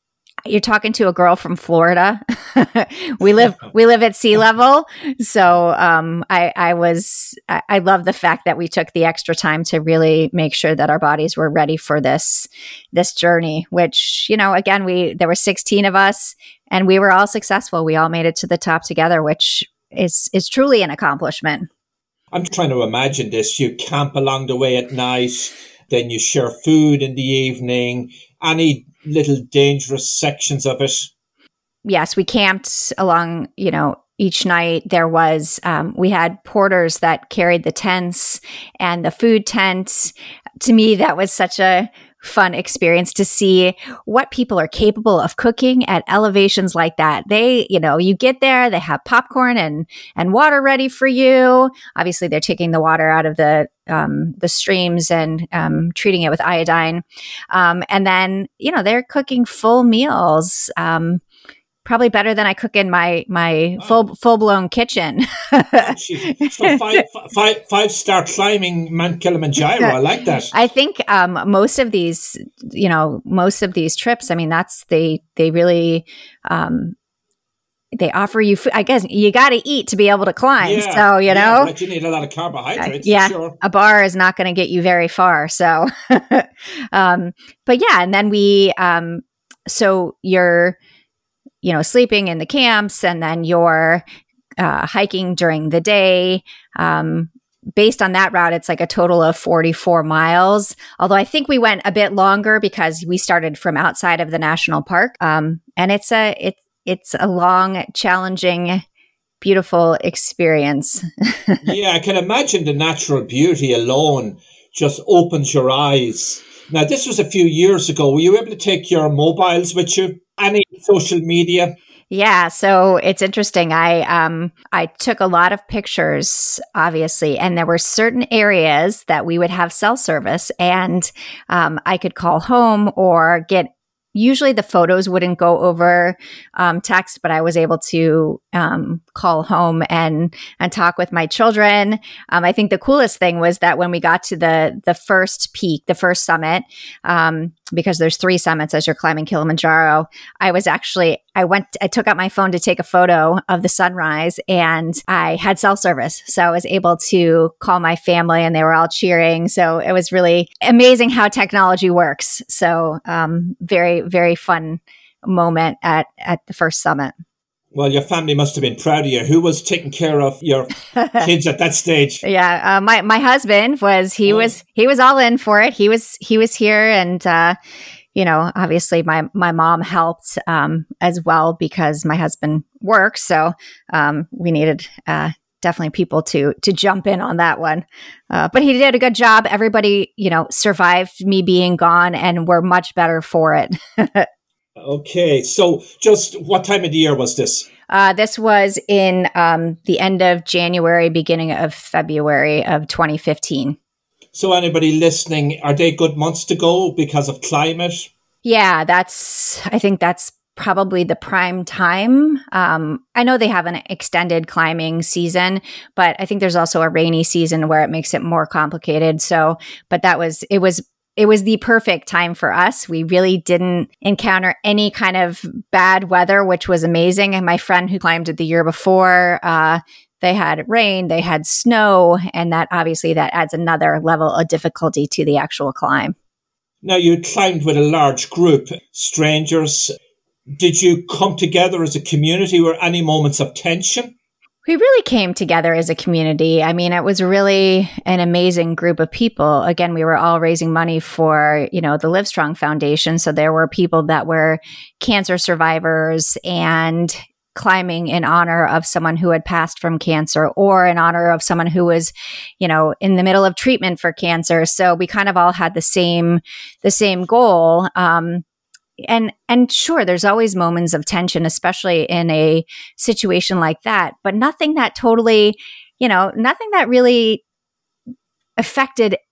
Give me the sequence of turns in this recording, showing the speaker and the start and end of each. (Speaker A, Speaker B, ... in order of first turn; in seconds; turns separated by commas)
Speaker A: 0.4-21.7, Speaker B: 22.3-31.1, Speaker A: 31.8-61.2, Speaker A: 61.8-66.7, Speaker B: 65.8-70.5, Speaker A: 70.5-76.9, Speaker A: 77.9-81.7, Speaker B: 80.6-83.6, Speaker A: 82.8-90.8, Speaker A: 91.6-94.0, Speaker A: 94.6-108.8, Speaker A: 109.4-111.6, Speaker B: 111.6-121.8, Speaker A: 122.1-167.1, Speaker B: 167.7-172.2, Speaker A: 170.9-171.2, Speaker A: 172.2-177.6, Speaker B: 174.2-174.5, Speaker A: 178.1-194.3, Speaker B: 194.8-197.7, Speaker A: 197.9-203.8, Speaker B: 204.3-208.1, Speaker A: 208.4-236.1, Speaker B: 236.8-239.9, Speaker B: 240.5-244.1, Speaker A: 244.7-268.4, Speaker A: 269.0-277.4, Speaker A: 278.6-279.2